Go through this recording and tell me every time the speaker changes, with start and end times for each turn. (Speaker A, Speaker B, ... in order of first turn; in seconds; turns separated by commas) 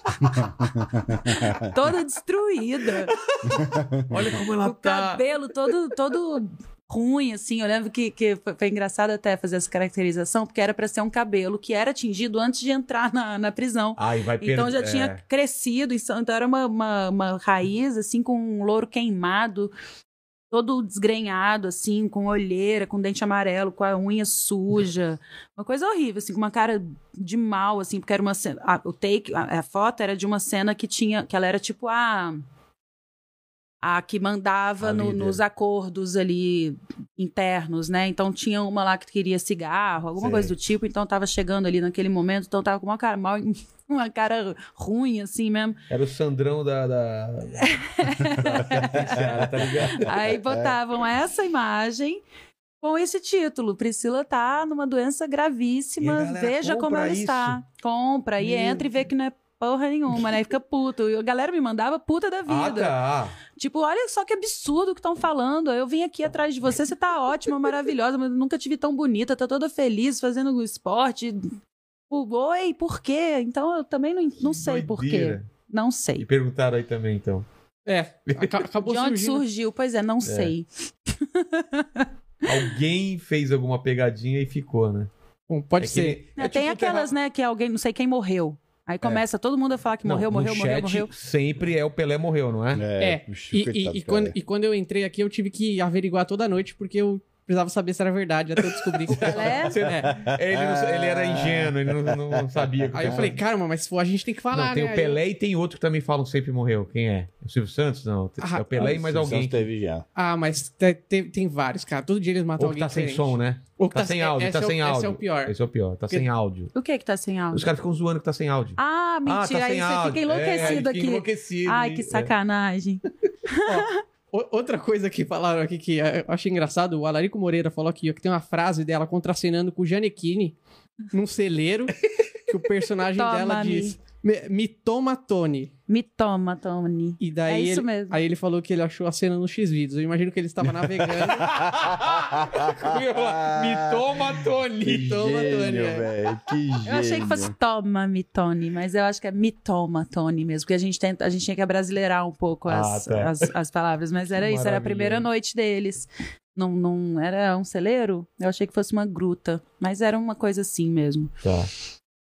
Speaker A: 0.2-1.8, Speaker B: 1.5-3.1, Speaker C: 3.2-5.2, Speaker A: 3.5-4.4, Speaker B: 4.6-19.7, Speaker C: 14.0-15.2, Speaker B: 20.5-32.4, Speaker B: 33.8-45.8, Speaker A: 34.8-35.3, Speaker C: 34.9-35.4, Speaker A: 40.2-40.5, Speaker C: 45.9-50.1, Speaker B: 47.6-49.2, Speaker A: 48.7-50.8, Speaker B: 50.0-52.2, Speaker B: 52.8-63.0, Speaker C: 56.0-57.6, Speaker C: 62.5-63.4, Speaker B: 63.5-71.6, Speaker B: 72.1-76.2, Speaker C: 74.4-75.5, Speaker C: 76.2-77.5, Speaker D: 77.9-79.4, Speaker C: 78.3-78.7, Speaker B: 78.8-82.1, Speaker C: 80.2-80.5, Speaker C: 82.4-85.1, Speaker D: 85.5-86.2, Speaker C: 85.8-87.1, Speaker B: 86.4-91.1, Speaker C: 90.0-92.9, Speaker A: 92.7-94.4, Speaker D: 93.0-100.2, Speaker C: 99.1-103.4, Speaker B: 99.2-99.8, Speaker A: 99.9-103.3, Speaker D: 103.0-105.2, Speaker C: 104.5-109.7, Speaker D: 108.4-109.0, Speaker A: 108.8-110.1, Speaker D: 110.2-115.6, Speaker C: 112.6-116.7, Speaker B: 116.8-117.7, Speaker C: 117.5-122.3, Speaker B: 118.8-123.9, Speaker D: 120.5-120.8, Speaker D: 123.7-130.6, Speaker D: 131.1-131.9, Speaker D: 132.5-135.7, Speaker B: 133.2-134.0, Speaker B: 135.9-138.2, Speaker D: 137.2-141.7, Speaker A: 141.2-144.3, Speaker C: 141.4-145.1, Speaker A: 144.8-147.5, Speaker D: 144.9-146.1, Speaker B: 146.8-161.3, Speaker C: 152.7-153.5, Speaker C: 154.4-155.3, Speaker C: 161.4-161.7